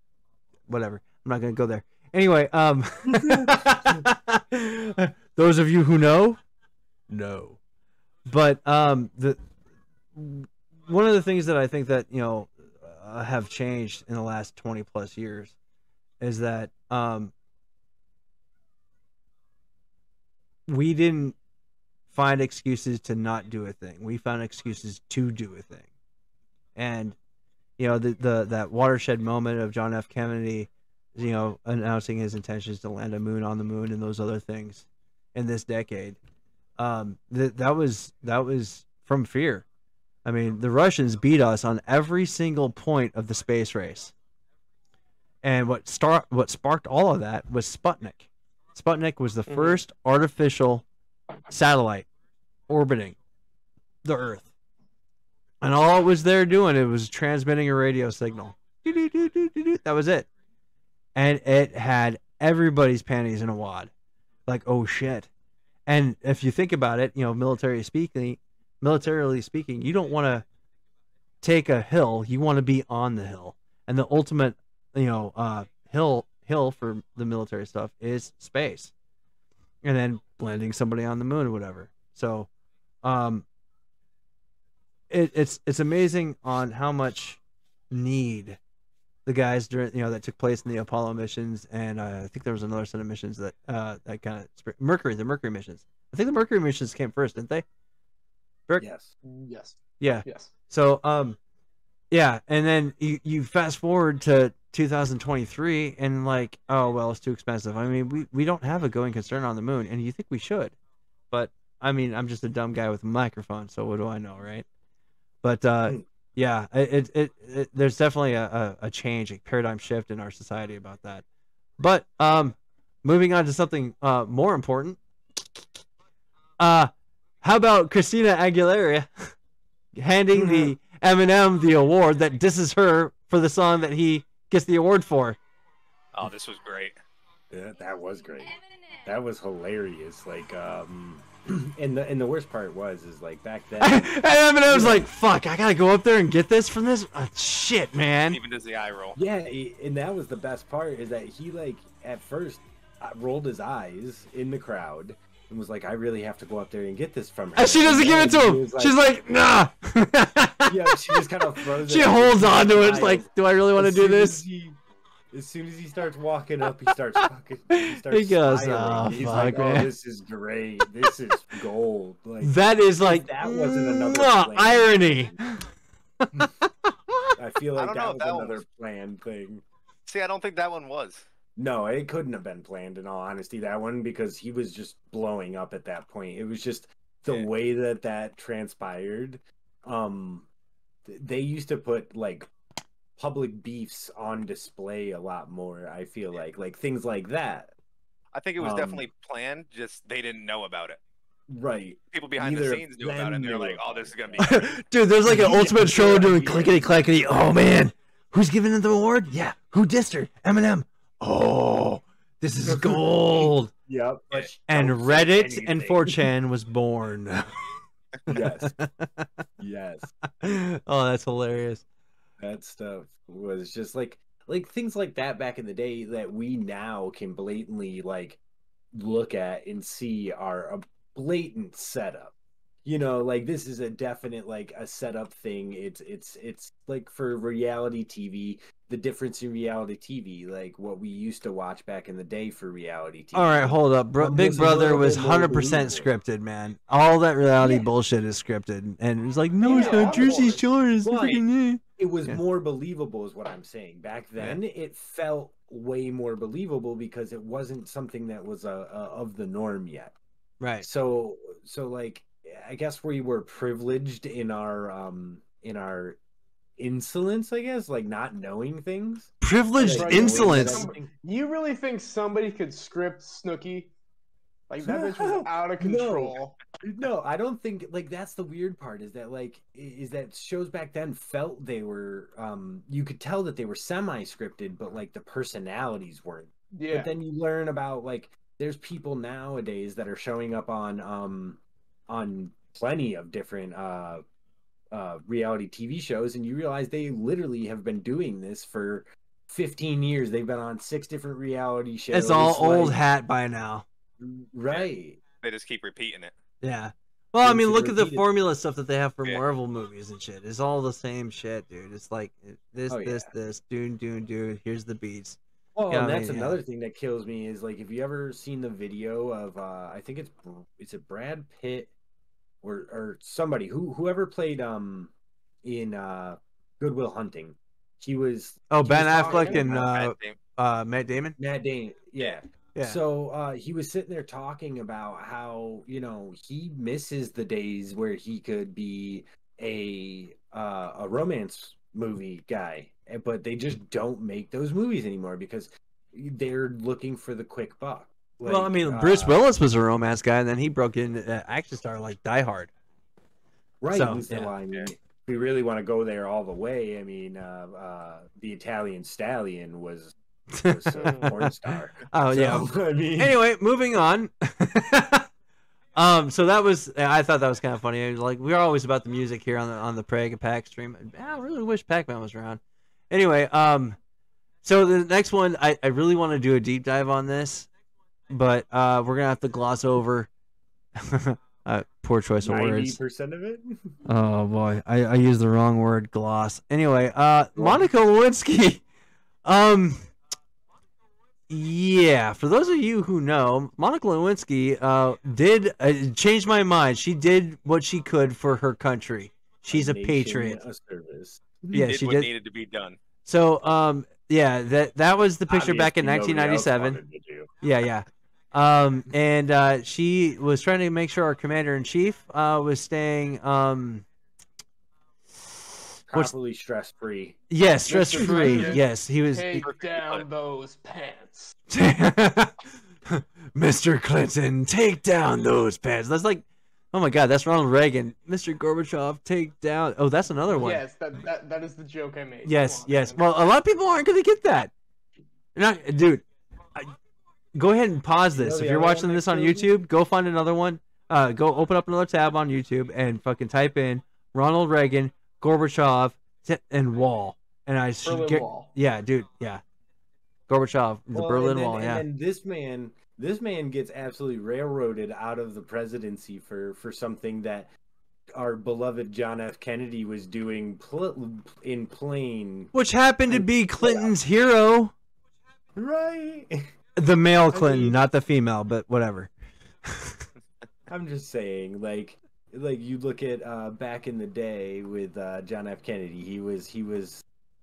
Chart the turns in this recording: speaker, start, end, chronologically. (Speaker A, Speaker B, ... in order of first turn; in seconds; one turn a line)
Speaker A: 0.7-6.4
Speaker B: 3.1-4.0
Speaker A: 7.1-7.6
Speaker A: 8.3-9.4
Speaker A: 10.1-15.6
Speaker A: 16.2-17.3
Speaker A: 20.7-21.4
Speaker A: 22.1-25.9
Speaker A: 26.8-27.2
Speaker A: 27.8-36.2
Speaker A: 36.8-39.6
Speaker A: 40.2-44.1
Speaker A: 45.4-50.8
Speaker C: 49.5-49.8
Speaker A: 51.5-52.1
Speaker A: 52.7-53.2
Speaker A: 54.0-54.5
Speaker A: 55.6-60.3
Speaker A: 61.2-63.9
Speaker A: 64.5-65.3
Speaker A: 65.9-70.5
Speaker A: 71.4-78.9
Speaker A: 79.8-82.5
Speaker A: 83.0-83.5
Speaker A: 85.1-87.4
Speaker A: 87.9-88.6
Speaker A: 89.3-97.7
Speaker B: 98.8-99.1
Speaker C: 99.2-100.5
Speaker A: 100.0-101.4
Speaker A: 102.1-110.7
Speaker A: 111.3-114.7
Speaker A: 115.4-121.2
Speaker A: 121.8-125.0
Speaker A: 126.6-129.3
Speaker A: 130.0-135.4
Speaker B: 130.3-130.7
Speaker D: 136.1-137.0
Speaker B: 137.5-144.2
Speaker A: 143.8-148.4
Speaker B: 144.7-145.1
Speaker D: 148.3-149.2
Speaker B: 149.2-159.0
Speaker A: 157.6-164.4
Speaker B: 160.7-164.8
Speaker B: 165.3-175.4
Speaker A: 167.7-169.9
Speaker A: 172.4-175.7
Speaker A: 176.2-176.5
Speaker B: 177.4-179.6
Speaker D: 177.8-178.6
Speaker D: 180.1-181.2
Speaker B: 181.6-190.5
Speaker B: 191.1-192.5
Speaker B: 193.2-197.7
Speaker D: 198.3-201.0
Speaker B: 198.6-199.1
Speaker B: 201.5-204.7
Speaker D: 202.1-204.6
Speaker A: 204.4-213.7
Speaker B: 205.3-207.1
Speaker B: 212.7-216.2
Speaker A: 214.7-217.6
Speaker B: 218.3-218.7
Speaker A: 218.3-219.3
Speaker B: 219.6-220.1
Speaker A: 220.4-221.8
Speaker B: 222.4-228.4
Speaker B: 228.9-232.3
Speaker B: 232.8-246.1
Speaker A: 243.3-252.4
Speaker B: 249.6-251.4
Speaker C: 249.6-250.5
Speaker B: 252.0-260.2
Speaker A: 260.6-260.9
Speaker B: 260.8-266.2
Speaker B: 266.8-271.1
Speaker A: 269.4-270.9
Speaker C: 269.8-273.9
Speaker C: 274.7-276.6
Speaker B: 274.8-294.2
Speaker C: 286.7-287.1
Speaker B: 294.9-303.0
Speaker A: 302.1-303.9
Speaker B: 304.2-305.2
Speaker D: 305.4-306.3
Speaker A: 306.6-316.6
Speaker B: 307.4-308.3
Speaker B: 312.9-313.3
Speaker B: 315.8-321.9
Speaker B: 322.6-325.1
Speaker B: 325.6-329.9
Speaker A: 328.7-331.4
Speaker D: 329.6-330.4
Speaker B: 331.4-349.4
Speaker A: 348.4-352.7
Speaker B: 353.8-363.4
Speaker A: 353.9-354.5
Speaker A: 360.5-365.3
Speaker C: 361.0-361.3
Speaker A: 366.0-374.0
Speaker A: 374.6-377.7
Speaker A: 378.3-380.3
Speaker A: 381.0-383.0
Speaker B: 382.4-383.9
Speaker A: 384.1-388.8
Speaker B: 387.6-387.9
Speaker A: 389.4-390.1
Speaker A: 391.5-400.6
Speaker B: 399.7-401.9
Speaker A: 401.7-402.3
Speaker D: 401.8-403.0
Speaker A: 403.2-407.0
Speaker B: 405.5-407.5
Speaker A: 407.6-414.1
Speaker A: 415.9-416.3
Speaker B: 416.1-417.4
Speaker A: 417.5-419.7
Speaker C: 417.9-421.6
Speaker B: 418.2-418.8
Speaker D: 419.6-420.2
Speaker A: 421.7-430.8
Speaker C: 430.6-433.2
Speaker A: 432.4-434.7
Speaker A: 435.6-436.2
Speaker A: 437.6-449.6
Speaker B: 438.3-439.7
Speaker C: 448.0-448.7
Speaker A: 450.5-452.0
Speaker B: 451.1-457.7
Speaker B: 458.4-462.7
Speaker A: 462.7-464.9
Speaker B: 463.3-464.1
Speaker B: 465.8-466.7
Speaker A: 467.0-469.3
Speaker B: 467.5-468.0
Speaker A: 469.9-470.2
Speaker B: 470.9-477.2